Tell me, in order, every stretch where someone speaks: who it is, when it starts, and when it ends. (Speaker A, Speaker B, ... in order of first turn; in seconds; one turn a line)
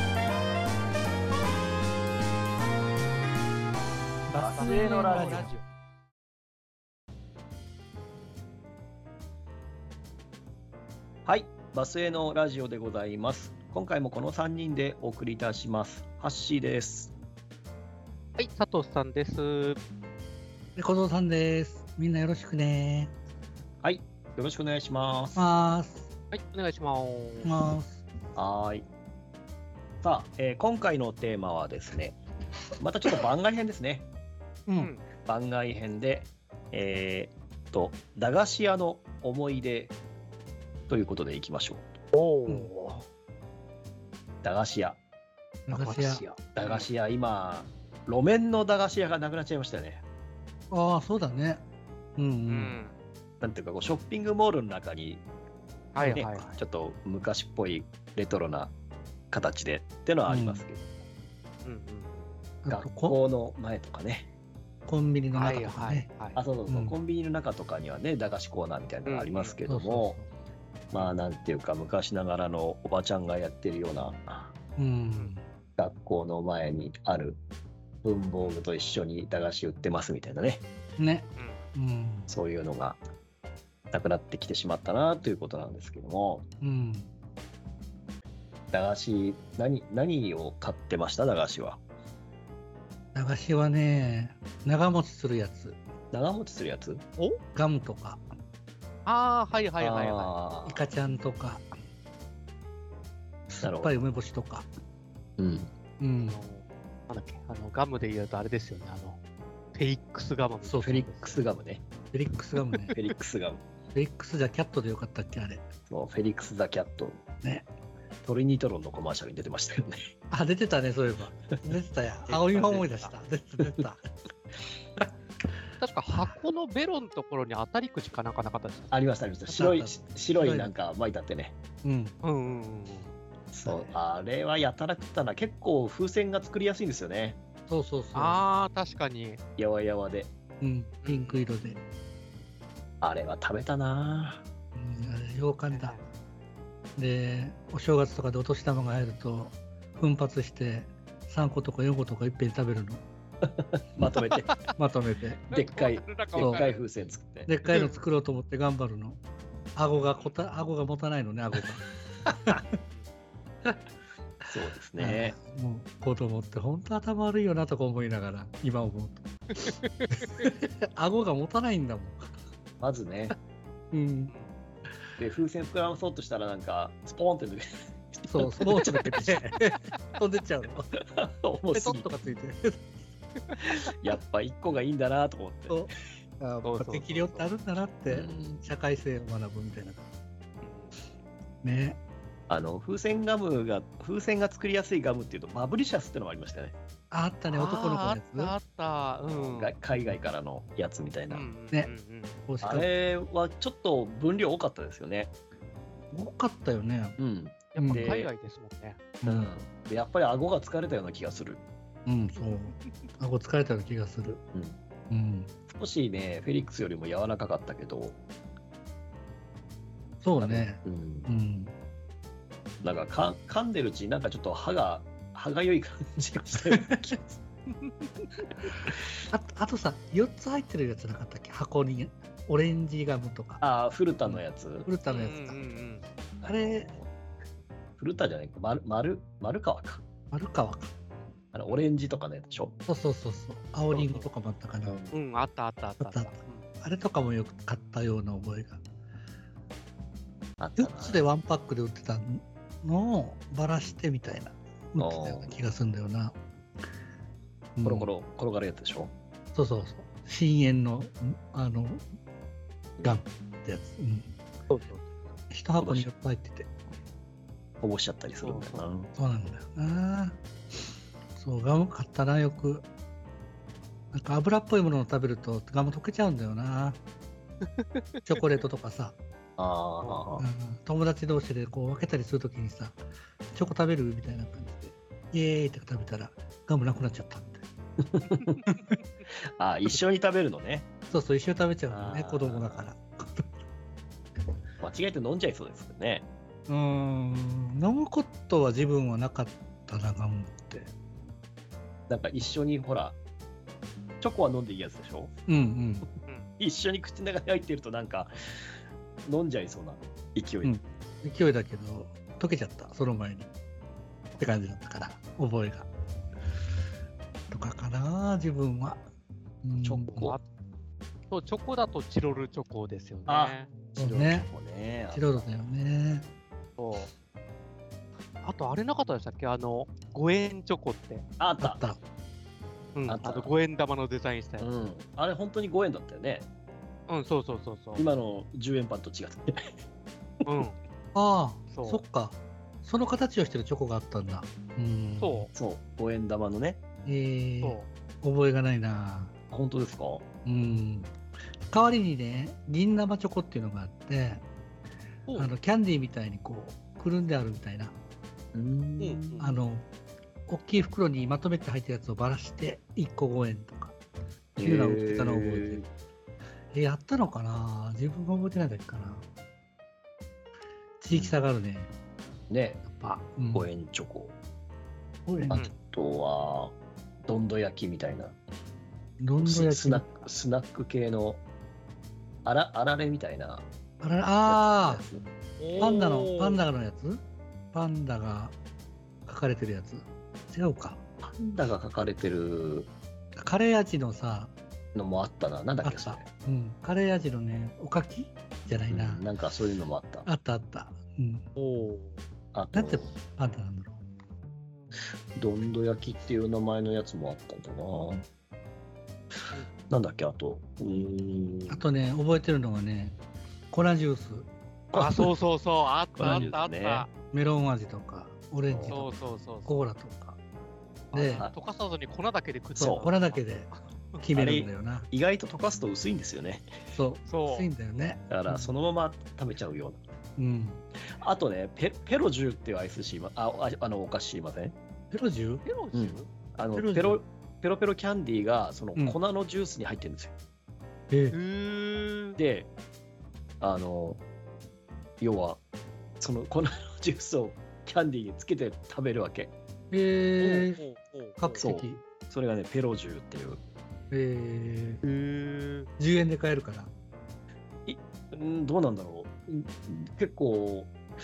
Speaker A: 4.3-5.6
Speaker B: 4.4-5.5
Speaker C: 4.6-5.5
Speaker B: 11.2-17.1
Speaker C: 18.4-19.8
Speaker A: 20.8-23.1
Speaker B: 23.8-25.4
Speaker A: 25.3-26.1
Speaker C: 26.3-27.6
Speaker A: 27.4-28.0
Speaker B: 28.3-28.9
Speaker B: 30.0-32.2
Speaker B: 32.8-34.1
Speaker A: 34.7-34.9
Speaker C: 34.7-35.0
Speaker B: 35.2-39.9
Speaker B: 40.9-42.0
Speaker C: 42.1-42.7
Speaker A: 42.5-43.0
Speaker B: 44.4-45.0
Speaker A: 45.7-46.2
Speaker C: 45.7-46.9
Speaker B: 46.4-50.0
Speaker A: 50.7-51.6
Speaker A: 52.2-52.8
Speaker C: 52.5-53.0
Speaker B: 53.4-55.2
Speaker C: 55.9-56.5
Speaker A: 56.0-56.5
Speaker B: 56.0-58.7
Speaker B: 59.3-60.9
Speaker A: 60.3-60.6
Speaker C: 61.6-62.3
Speaker A: 62.6-63.2
Speaker B: 62.7-64.3
Speaker A: 64.9-66.1
Speaker C: 65.3-66.4
Speaker B: 66.3-70.2
Speaker A: 66.7-67.0
Speaker C: 69.0-69.5
Speaker A: 69.7-70.3
Speaker B: 70.9-74.5
Speaker A: 74.8-75.4
Speaker B: 75.8-77.4
Speaker B: 78.0-80.6
Speaker A: 81.0-82.3
Speaker C: 81.3-81.6
Speaker B: 82.3-83.0
Speaker B: 83.9-86.5
Speaker A: 86.6-87.1
Speaker B: 88.7-91.8
Speaker A: 93.1-95.8
Speaker B: 96.1-97.0
Speaker A: 97.5-98.2
Speaker C: 99.0-100.3
Speaker B: 99.8-100.9
Speaker A: 100.6-101.7
Speaker B: 103.5-104.0
Speaker A: 103.6-104.7
Speaker B: 105.4-105.7
Speaker A: 106.0-106.4
Speaker C: 106.2-109.2
Speaker C: 109.7-111.4
Speaker A: 110.6-111.1
Speaker B: 110.8-111.8
Speaker A: 112.1-112.9
Speaker C: 112.8-113.1
Speaker B: 112.9-113.6
Speaker A: 113.9-115.7
Speaker B: 115.9-117.2
Speaker A: 117.4-117.7
Speaker B: 118.2-120.1
Speaker A: 120.3-124.0
Speaker C: 122.3-123.1
Speaker C: 125.8-128.9
Speaker B: 128.9-131.6
Speaker A: 129.5-130.7
Speaker A: 131.8-132.2
Speaker C: 132.2-133.1
Speaker B: 133.5-137.4
Speaker A: 133.6-134.0
Speaker A: 137.7-138.4
Speaker C: 138.1-139.4
Speaker B: 139.6-140.3
Speaker A: 140.6-141.8
Speaker C: 141.0-141.5
Speaker B: 143.0-144.4
Speaker A: 144.7-146.0
Speaker C: 145.7-146.0
Speaker A: 146.9-153.0
Speaker B: 153.5-154.5
Speaker C: 154.4-154.8
Speaker A: 154.8-155.5
Speaker C: 155.5-156.8
Speaker B: 155.5-157.5
Speaker A: 156.3-156.7
Speaker A: 157.4-159.2
Speaker C: 157.7-158.0
Speaker A: 159.7-162.6
Speaker C: 159.9-160.4
Speaker B: 164.5-165.4
Speaker A: 165.0-169.2
Speaker C: 169.5-170.4
Speaker A: 170.2-172.2
Speaker B: 172.8-173.3
Speaker A: 173.9-174.3
Speaker C: 174.3-174.6
Speaker B: 175.2-179.5
Speaker A: 178.3-180.9
Speaker B: 180.9-182.1
Speaker A: 181.7-182.9
Speaker B: 183.6-185.9
Speaker A: 185.7-190.0
Speaker C: 186.6-187.5
Speaker B: 188.1-188.6
Speaker C: 190.6-190.9
Speaker A: 191.6-192.0
Speaker B: 192.5-196.7
Speaker A: 197.1-198.6
Speaker C: 197.5-199.8
Speaker B: 199.3-201.5
Speaker C: 201.3-202.4
Speaker A: 202.5-202.9
Speaker B: 202.6-205.3
Speaker A: 206.1-207.2
Speaker B: 207.2-208.3
Speaker C: 207.7-209.0
Speaker A: 207.8-208.1
Speaker A: 209.2-209.5
Speaker B: 209.2-211.6
Speaker A: 212.1-214.4
Speaker C: 212.4-213.1
Speaker A: 215.1-215.5
Speaker B: 215.7-218.2
Speaker A: 220.2-221.7
Speaker B: 220.4-221.3
Speaker B: 222.8-227.4
Speaker C: 227.7-228.1
Speaker A: 229.3-233.6
Speaker B: 233.6-234.9
Speaker A: 234.2-235.6
Speaker C: 235.1-236.0
Speaker B: 236.4-237.1
Speaker A: 236.4-236.9
Speaker B: 238.0-240.0
Speaker A: 240.3-240.9
Speaker B: 241.5-242.8
Speaker A: 242.9-245.0
Speaker C: 243.9-244.3
Speaker B: 244.8-245.1
Speaker C: 245.1-246.7
Speaker A: 246.0-248.8
Speaker B: 250.6-251.3
Speaker A: 250.8-256.4
Speaker B: 255.0-255.6
Speaker A: 257.8-258.1
Speaker B: 257.8-259.1
Speaker A: 259.5-262.0
Speaker B: 263.0-263.2
Speaker A: 263.0-264.3
Speaker C: 264.7-265.1
Speaker A: 265.5-266.7
Speaker B: 265.8-266.1
Speaker B: 267.8-269.1
Speaker C: 268.4-268.9
Speaker A: 269.1-270.4
Speaker A: 271.3-272.9
Speaker A: 274.1-277.0
Speaker C: 277.8-278.2
Speaker A: 278.2-279.2
Speaker B: 279.6-280.4
Speaker C: 280.0-280.2
Speaker A: 280.4-283.0
Speaker A: 283.5-287.6
Speaker B: 288.0-288.6
Speaker A: 288.7-289.0
Speaker B: 289.6-290.9
Speaker A: 291.1-293.4
Speaker B: 291.9-292.9
Speaker B: 294.8-296.2
Speaker A: 296.7-300.9
Speaker B: 302.1-303.2
Speaker B: 304.2-305.3
Speaker A: 305.5-306.1
Speaker B: 306.6-308.3
Speaker B: 309.2-310.7
Speaker A: 310.6-313.5
Speaker A: 314.4-315.9
Speaker A: 317.5-319.0
Speaker A: 319.6-320.2
Speaker B: 319.8-320.4
Speaker C: 320.1-320.4
Speaker C: 321.3-323.7
Speaker B: 323.3-325.5
Speaker A: 323.9-324.5
Speaker A: 325.1-326.2
Speaker C: 326.8-327.1
Speaker C: 328.4-331.2
Speaker B: 331.4-331.8
Speaker A: 331.6-332.0
Speaker C: 332.9-334.7
Speaker B: 333.1-333.5
Speaker B: 334.6-336.5
Speaker C: 337.1-338.1
Speaker B: 337.9-339.7
Speaker C: 340.4-340.8
Speaker A: 341.1-345.5
Speaker C: 341.7-342.0
Speaker C: 345.2-345.5
Speaker B: 345.5-346.8
Speaker A: 347.0-349.3
Speaker C: 347.6-347.9
Speaker B: 349.5-350.2
Speaker A: 350.4-351.1
Speaker A: 351.7-354.4
Speaker C: 355.3-355.5
Speaker A: 355.4-357.9
Speaker B: 358.5-359.4
Speaker C: 359.0-359.6
Speaker A: 359.4-359.9
Speaker A: 360.5-364.0
Speaker B: 364.6-365.9
Speaker A: 364.6-365.9
Speaker A: 366.7-369.2
Speaker A: 371.0-371.9
Speaker B: 371.1-371.4
Speaker B: 372.5-372.8
Speaker A: 372.9-373.7
Speaker B: 373.5-374.3
Speaker A: 375.2-375.6
Speaker B: 375.5-378.4
Speaker A: 379.2-380.3
Speaker B: 379.4-381.4
Speaker B: 382.4-383.7
Speaker A: 384.0-385.0
Speaker B: 384.4-385.9
Speaker C: 385.6-386.6
Speaker A: 385.8-388.6
Speaker A: 389.2-391.0
Speaker B: 391.2-392.9
Speaker A: 393.4-394.5
Speaker B: 394.9-396.3
Speaker A: 395.8-399.3
Speaker B: 398.9-400.3
Speaker A: 400.2-401.5
Speaker C: 401.6-402.2
Speaker B: 402.5-403.1
Speaker A: 402.7-404.0
Speaker B: 405.3-408.2
Speaker B: 409.9-411.9
Speaker A: 411.7-413.2
Speaker A: 413.7-414.5
Speaker B: 414.9-415.3
Speaker C: 414.9-417.1
Speaker B: 416.1-417.1
Speaker A: 416.2-416.5
Speaker A: 417.3-420.4
Speaker B: 418.6-419.0
Speaker C: 418.8-419.8
Speaker A: 421.1-421.4
Speaker C: 421.1-424.2
Speaker A: 422.8-425.1
Speaker B: 422.8-423.1
Speaker B: 424.3-426.7
Speaker A: 426.9-428.7
Speaker C: 427.2-427.7
Speaker B: 428.3-430.0
Speaker A: 430.4-430.8
Speaker B: 431.2-434.7
Speaker A: 435.1-435.6
Speaker C: 435.6-436.3
Speaker B: 435.9-440.3
Speaker A: 436.6-437.2
Speaker A: 441.1-441.4
Speaker C: 441.3-442.4
Speaker B: 442.4-442.7
Speaker B: 443.6-444.2
Speaker B: 445.2-445.6
Speaker B: 446.2-449.5
Speaker A: 449.9-450.8
Speaker C: 450.4-451.6
Speaker A: 451.4-452.0
Speaker B: 451.5-453.6
Speaker A: 454.1-455.0
Speaker C: 455.0-455.9
Speaker A: 456.0-456.9
Speaker B: 457.9-460.9